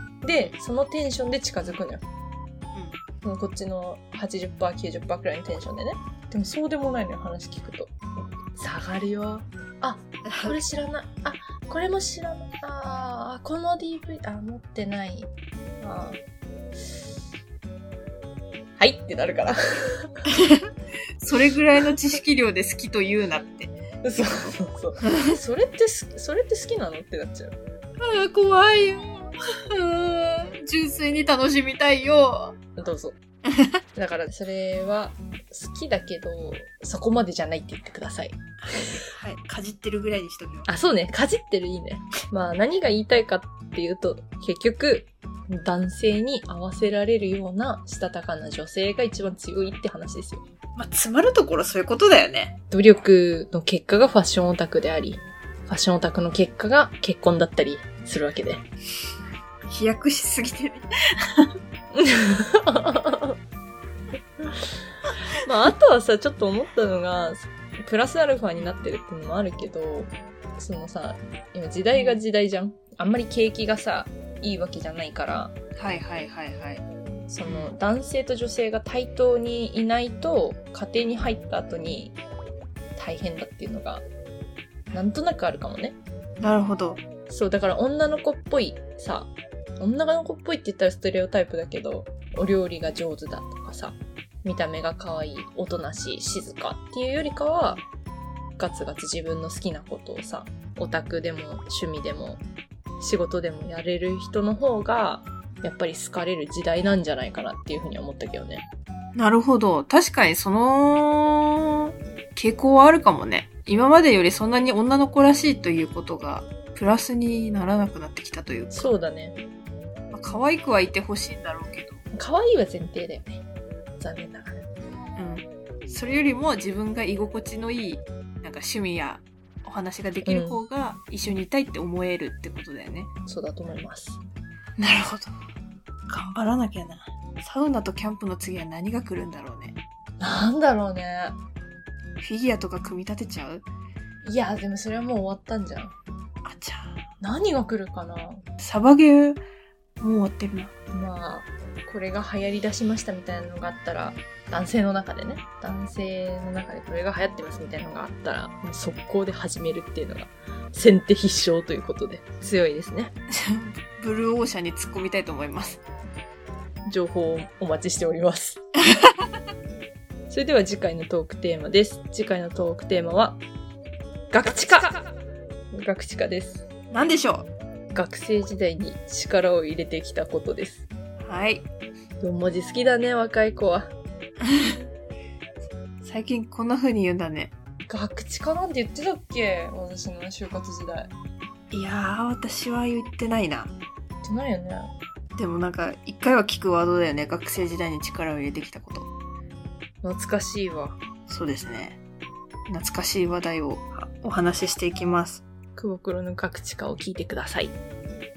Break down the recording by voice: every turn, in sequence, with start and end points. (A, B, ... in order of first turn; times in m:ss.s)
0:00.2-0:02.0 A
0:02.7-0:03.0 B
0:03.2-0:07.9 A
0:08.6-0:15.3 A
0:10.3-0:10.6 B
0:15.8-0:16.2 A
0:18.8-0:20.3 A
0:20.3-0:25.3 B
0:24.0-0:27.5 A
0:28.0-0:32.6 B
0:32.8-0:33.2 A
0:33.5-0:33.8 B
0:34.0-0:38.4 A
0:38.6-0:40.7 B
0:40.7-0:50.4 A
0:50.8-0:52.6 B
0:52.7-0:58.6 A
0:59.7-1:01.5 B
1:01.9-1:03.4 A
1:05.3-1:15.5 A
1:11.9-1:12.2 B
1:15.8-1:16.8 B
1:17.3-1:22.2 A
1:17.4-1:17.7 B
1:23.0-1:24.0 A
1:24.9-1:26.0 A
1:26.4-1:27.0 B
1:27.3-1:37.8 A
1:38.6-1:42.4 A
1:43.0-1:48.6 A
1:49.2-1:59.0 B
1:58.7-1:59.4 A
2:00.1-2:02.0 B
2:02.1-2:03.4 A
2:04.0-2:04.6 A
2:05.2-2:13.1 B
2:10.2-2:10.6 A
2:13.3-2:14.2 A
2:14.8-2:15.3 B
2:16.1-2:19.8 B
2:20.2-2:21.4 A
2:22.2-2:23.7 B
2:24.2-2:26.0 A
2:26.4-2:27.1 B
2:27.2-2:28.4 A
2:28.6-2:29.4 B
2:30.0-2:30.7 B
2:30.9-2:43.1 A
2:43.3-2:45.8 B
2:46.9-2:48.6 A
2:48.9-2:49.3 B
2:50.3-2:53.4 A
2:54.3-2:55.0 A
2:55.7-2:56.6 A
2:56.9-2:57.5 B
2:57.9-3:00.8 A
3:01.2-3:01.7 B
3:02.2-3:03.9 A
3:04.4-3:04.8 B
3:06.0-3:07.5 B
3:07.9-3:11.1 A
3:11.7-3:13.7 B
3:14.2-3:14.9 A
3:15.4-3:19.1 B
3:20.0-3:21.0 A
3:21.3-3:22.0 B
3:22.7-3:25.4 B
3:25.8-3:27.8 A